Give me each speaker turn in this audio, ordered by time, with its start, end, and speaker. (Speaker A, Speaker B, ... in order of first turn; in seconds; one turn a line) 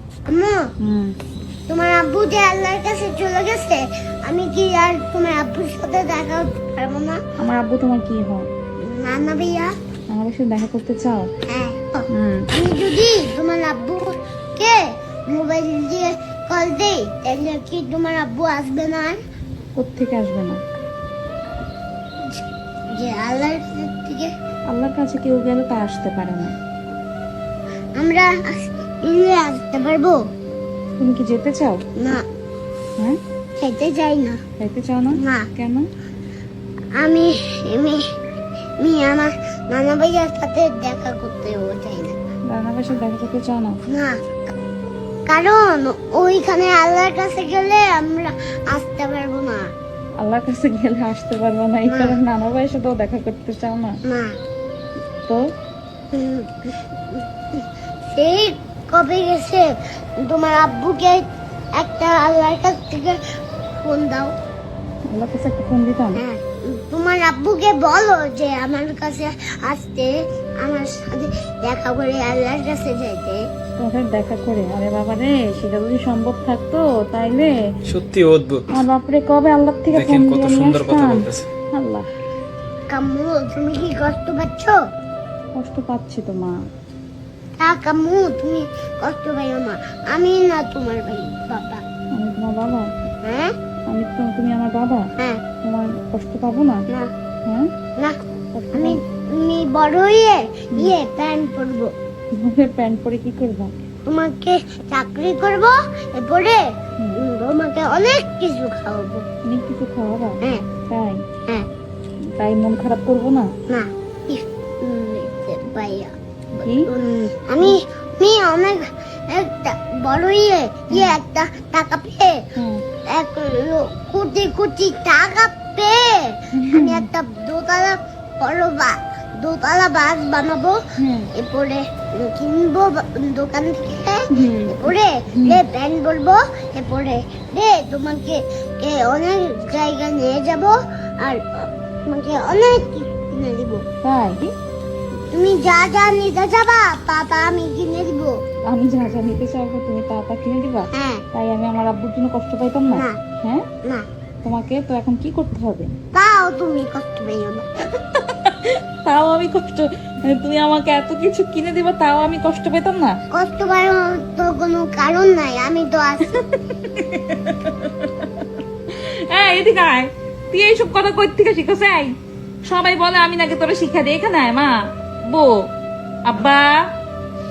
Speaker A: 0.3-0.6
Speaker B: 0.8-1.1
Speaker A: 1.7-7.2
Speaker B: 7.4-8.4
Speaker A: 8.8-9.7
Speaker B: 10.1-11.3
Speaker A: 11.5-19.2
Speaker B: 12.1-12.5
Speaker B: 19.8-20.6
Speaker A: 22.9-24.3
Speaker B: 24.7-26.5
Speaker A: 28.0-30.2
Speaker B: 31.0-31.9
Speaker A: 31.9-32.2
Speaker A: 33.6-34.4
Speaker B: 34.6-35.9
Speaker A: 35.1-35.5
Speaker A: 37.0-38.0
Speaker A: 38.8-42.2
Speaker B: 42.5-43.8
Speaker A: 43.9-44.3
Speaker A: 45.3-49.6
Speaker B: 50.2-54.0
Speaker A: 51.9-52.1
Speaker A: 56.1-59.7
Speaker A: 60.2-61.2
Speaker A: 61.8-63.2
Speaker A: 63.8-64.3
Speaker B: 65.1-66.2
Speaker A: 66.1-73.4
Speaker B: 73.8-77.5
Speaker C: 77.9-78.7
Speaker B: 78.7-82.1
Speaker C: 79.9-81.5
Speaker A: 82.9-84.8
Speaker B: 85.6-86.5
Speaker A: 87.6-91.8
Speaker B: 92.2-92.9
Speaker A: 93.2-93.5
Speaker B: 93.9-95.1
Speaker B: 95.6-96.8
Speaker B: 98.5-99.0
Speaker A: 98.7-101.9
Speaker B: 102.4-103.7
Speaker A: 104.1-106.6
Speaker A: 107.2-109.2
Speaker B: 109.5-110.4
Speaker B: 110.9-111.2
Speaker B: 112.3-113.5
Speaker A: 113.7-122.4
Speaker B: 116.6-116.9
Speaker B: 120.9-121.2
Speaker B: 122.6-122.8
Speaker A: 123.1-130.8
Speaker B: 126.5-127.1
Speaker B: 131.0-131.3
Speaker A: 131.3-143.8
Speaker B: 134.3-135.6
Speaker B: 144.0-144.5
Speaker A: 145.3-148.3
Speaker B: 148.7-153.6
Speaker A: 150.9-151.2
Speaker A: 152.9-153.2
Speaker B: 154.4-155.9
Speaker A: 156.1-157.7
Speaker B: 158.1-163.2
Speaker A: 163.3-166.4
Speaker B: 166.3-168.3
Speaker B: 168.9-172.1
Speaker B: 172.7-174.8
Speaker B: 175.3-175.6
Speaker B: 176.2-176.9